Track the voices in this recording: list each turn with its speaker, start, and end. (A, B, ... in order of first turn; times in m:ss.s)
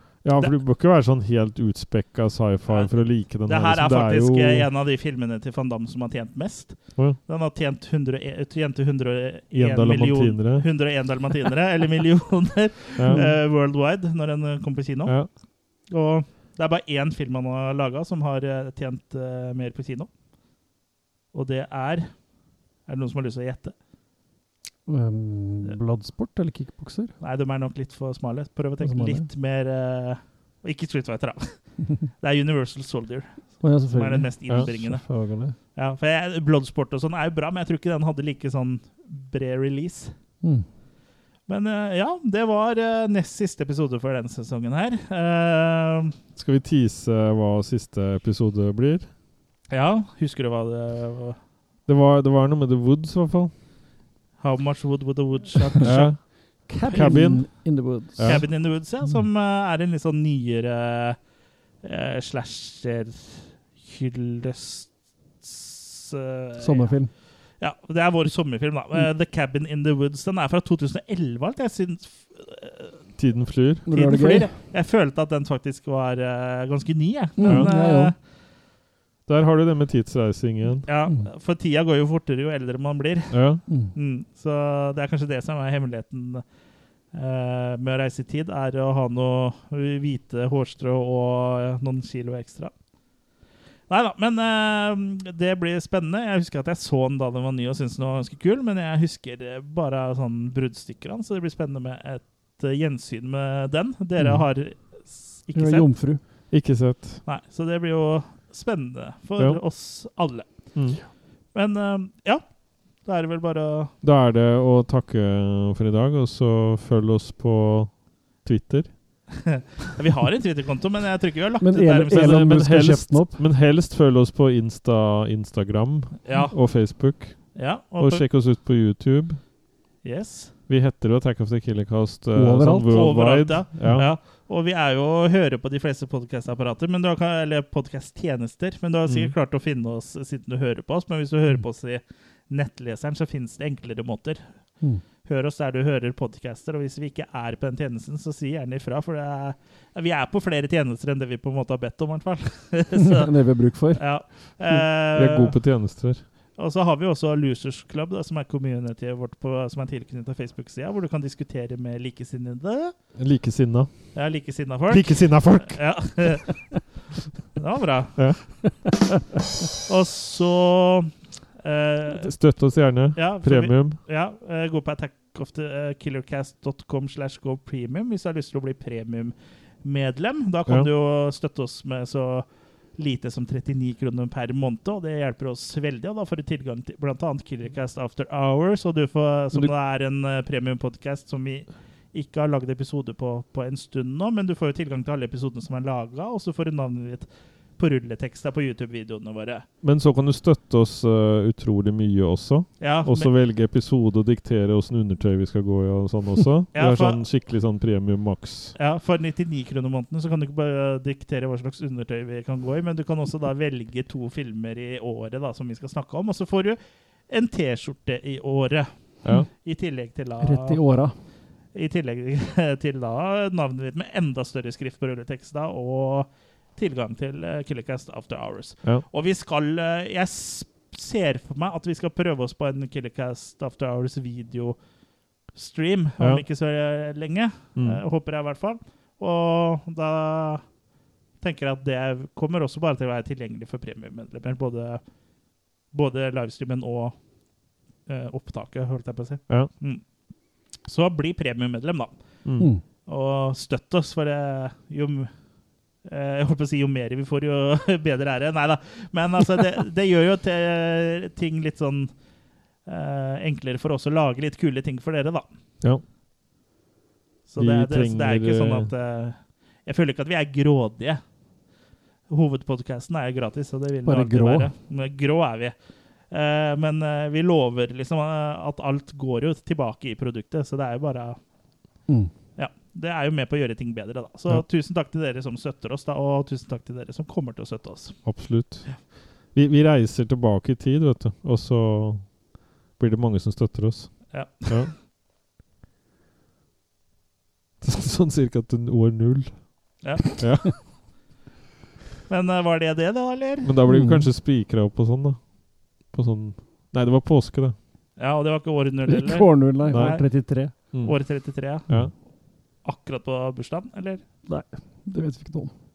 0:00.2-0:04.7 A
0:02.7-0:15.3 B
0:09.5-0:10.7 A
0:13.0-0:13.2 A
0:13.1-0:13.4 C
0:15.9-0:20.1 B
0:21.3-0:22.2 B
0:22.8-0:23.7 B
0:24.9-0:27.1 C
0:27.2-0:35.1 B
0:28.8-0:29.3 C
0:33.6-0:35.6 C
0:35.7-0:40.1 B
0:40.4-0:40.7 C
0:41.5-0:46.1 B
0:46.3-0:49.1 A
0:49.7-0:51.4 B
0:51.8-0:53.5 A
0:54.4-0:56.1 B
0:55.6-0:58.5 C
0:55.8-0:58.7 A
0:58.2-1:01.2 B
1:01.8-1:13.0 B
1:06.6-1:07.1 C
1:13.2-1:13.9 A
1:13.8-1:14.5 C
1:13.9-1:18.1 B
1:17.4-1:18.1 C
1:17.4-1:17.7 A
1:19.3-1:20.9 A
1:20.8-1:26.4 B
1:23.3-1:23.6 A
1:23.7-1:23.9 C
1:27.1-1:32.7 B
1:33.9-1:46.4 B
1:44.2-1:44.4 C
1:45.5-1:46.2 C
1:46.5-1:47.2 A
1:47.2-1:50.8 B
1:49.4-1:49.6 A
1:50.7-1:51.0 A
1:51.5-1:53.9 B
1:54.0-1:59.2 A
1:59.4-2:02.6 B
2:01.6-2:03.4 C
2:02.1-2:09.4 A
2:06.2-2:08.2 B
2:10.0-2:10.5 B
2:10.7-2:14.1 A
2:12.3-2:13.2 C
2:12.9-2:33.3 B
2:19.0-2:19.3 A
2:33.2-2:34.8 C
2:33.8-2:35.6 B
2:34.8-2:36.2 A
2:36.6-2:42.9 B
2:43.1-2:46.4 A
2:44.1-2:46.7 B
2:47.6-2:48.4 B
2:48.2-2:48.9 A
2:49.8-2:52.3 B
2:52.1-2:54.0 A
2:53.1-3:19.6 B
3:19.8-3:28.7 A
3:22.8-3:23.3 B
3:26.7-3:27.2 B
3:28.8-3:40.8 B
3:40.4-3:41.2 C
3:41.7-3:54.8 B
3:55.5-4:00.7 B
3:56.2-3:56.4 A
3:57.7-3:58.0 A
4:01.4-4:05.0 B
4:05.9-4:07.2 B
4:08.0-4:10.0 B
4:10.8-4:15.3 B
4:12.4-4:12.7 A
4:16.0-4:22.1 B
4:22.8-4:25.5 B
4:27.5-4:31.2 B
4:27.6-4:28.9 A
4:32.3-4:35.7 B
4:34.0-4:34.7 C
4:36.3-4:41.4 B
4:42.6-4:49.0 B
4:48.2-4:52.4 A
4:52.9-4:54.9 A
4:54.3-4:54.9 B
4:57.8-5:01.0 A
5:00.0-5:00.7 B
5:02.3-5:03.7 B
5:03.6-5:07.8 A
5:03.9-5:04.2 C
5:08.2-5:14.2 B
5:09.0-5:10.7 C
5:09.8-5:12.1 A
5:14.4-5:15.7 C